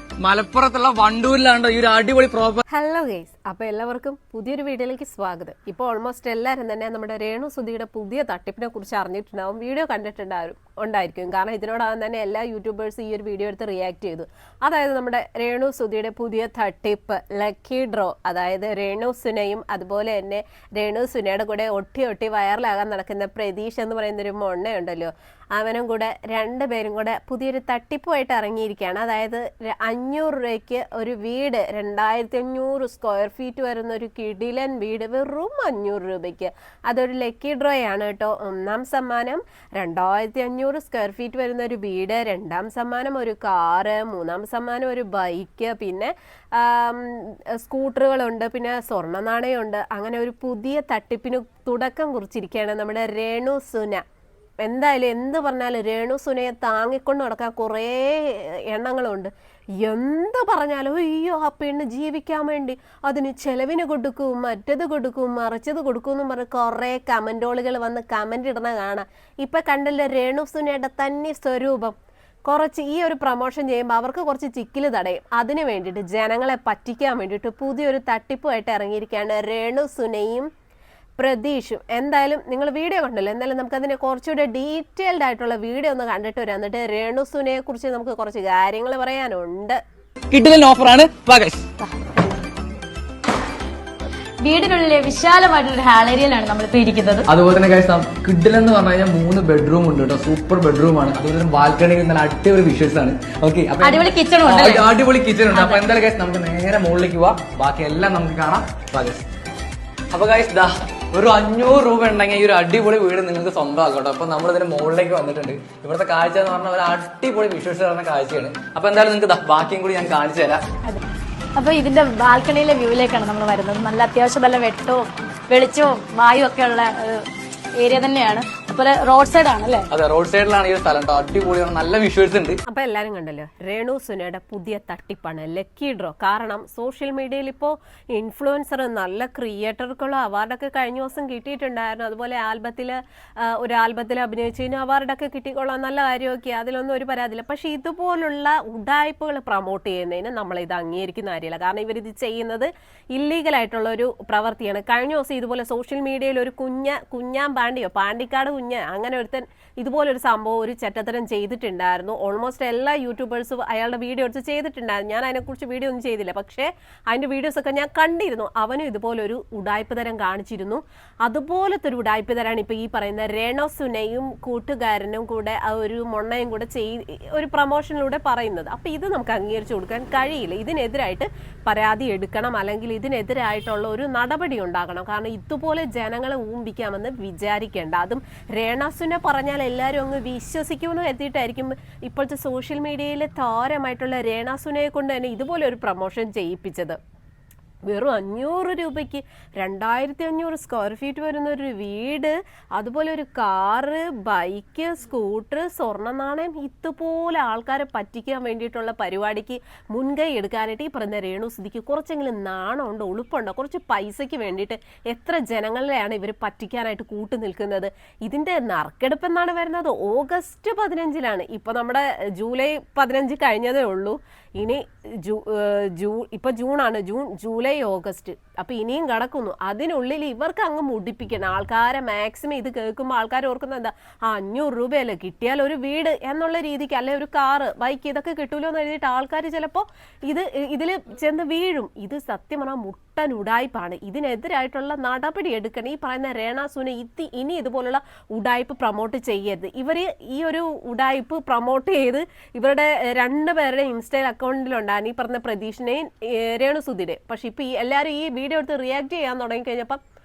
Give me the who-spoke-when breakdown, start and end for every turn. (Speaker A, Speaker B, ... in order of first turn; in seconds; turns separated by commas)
Speaker A: 0.2-2.6, Speaker B: 2.7-54.0, Speaker B: 54.6-72.0, Speaker B: 72.5-80.5, Speaker B: 81.2-89.8, Speaker A: 90.3-91.7, Speaker C: 94.4-97.3, Speaker A: 97.3-109.2, Speaker C: 103.8-104.9, Speaker C: 105.5-105.8, Speaker A: 110.1-120.6, Speaker C: 121.6-127.2, Speaker C: 127.8-129.9, Speaker A: 129.9-132.6, Speaker B: 132.7-197.0, Speaker B: 197.9-260.0